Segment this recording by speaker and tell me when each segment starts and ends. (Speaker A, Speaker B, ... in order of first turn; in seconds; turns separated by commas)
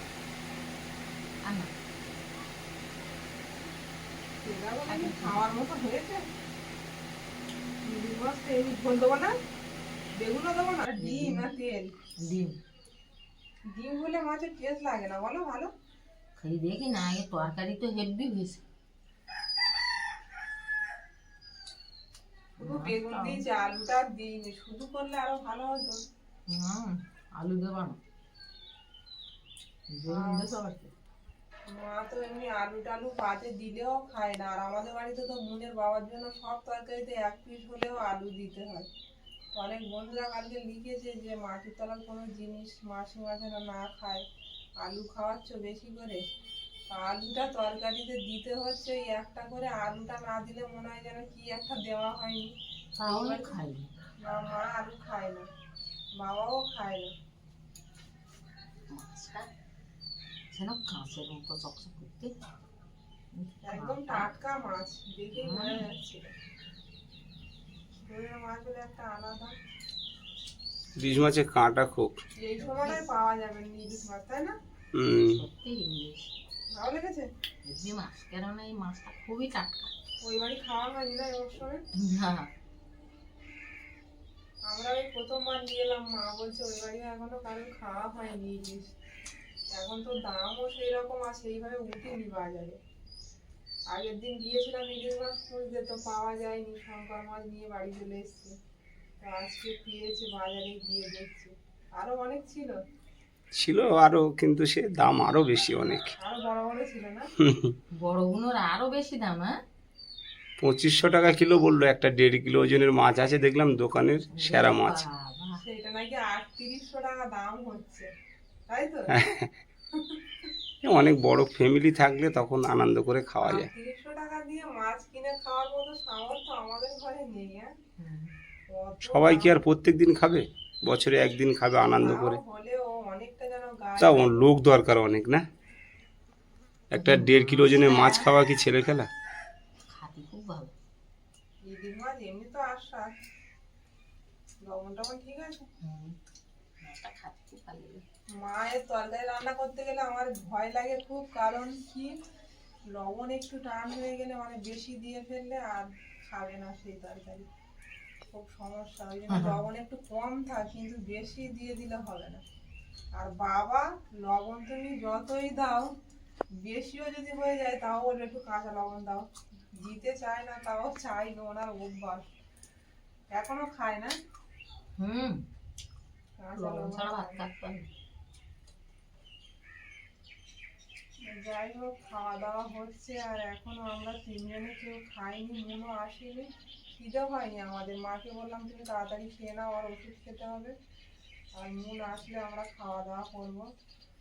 Speaker A: 1.4-1.7, Speaker B: 4.4-6.2, Speaker A: 4.9-5.4, Speaker B: 7.8-9.3, Speaker B: 10.2-11.9, Speaker A: 11.0-11.4, Speaker A: 12.2-12.6, Speaker B: 13.7-15.7, Speaker A: 16.4-18.6, Speaker A: 22.6-23.4, Speaker B: 22.6-26.0, Speaker A: 26.5-28.0, Speaker A: 29.9-30.9, Speaker B: 30.1-30.5, Speaker B: 31.7-38.9, Speaker B: 39.5-44.2, Speaker B: 44.8-46.2, Speaker B: 46.9-52.5, Speaker A: 53.0-53.9, Speaker B: 53.1-53.5, Speaker B: 54.2-55.5, Speaker B: 56.2-57.1, Speaker A: 58.9-59.5, Speaker A: 60.5-62.3, Speaker A: 63.3-64.3, Speaker B: 63.6-66.3, Speaker A: 65.4-65.8, Speaker B: 68.0-69.5, Speaker C: 71.0-72.1, Speaker B: 72.4-74.5, Speaker A: 72.6-73.0, Speaker C: 74.9-75.4, Speaker A: 75.2-76.3, Speaker B: 76.7-77.3, Speaker A: 77.6-79.9, Speaker B: 80.2-81.8, Speaker A: 82.0-82.5, Speaker B: 84.7-88.9, Speaker B: 89.7-92.8, Speaker B: 93.9-98.5, Speaker B: 99.2-102.8, Speaker C: 103.5-106.1, Speaker B: 106.2-107.3, Speaker C: 107.4-107.8, Speaker A: 108.0-109.5, Speaker C: 110.6-115.0, Speaker A: 114.3-115.6, Speaker B: 115.6-118.1, Speaker B: 118.7-119.3, Speaker C: 119.1-119.5, Speaker B: 119.9-120.5, Speaker C: 120.8-123.7, Speaker B: 123.4-127.7, Speaker A: 128.0-128.3, Speaker B: 128.7-129.6, Speaker C: 129.1-132.4, Speaker B: 131.9-134.4, Speaker C: 134.0-135.4, Speaker C: 136.9-139.1, Speaker A: 136.9-138.3, Speaker A: 139.9-140.7, Speaker B: 141.6-143.1, Speaker B: 144.6-145.7, Speaker A: 145.8-146.2, Speaker A: 146.8-148.0, Speaker B: 148.3-152.1, Speaker B: 152.9-157.5, Speaker B: 158.3-162.4, Speaker A: 159.3-159.6, Speaker B: 163.1-165.9, Speaker B: 166.6-172.3, Speaker B: 173.3-174.1, Speaker A: 175.0-175.4, Speaker B: 176.4-177.4, Speaker A: 176.6-177.9, Speaker B: 181.2-190.7, Speaker B: 191.5-193.7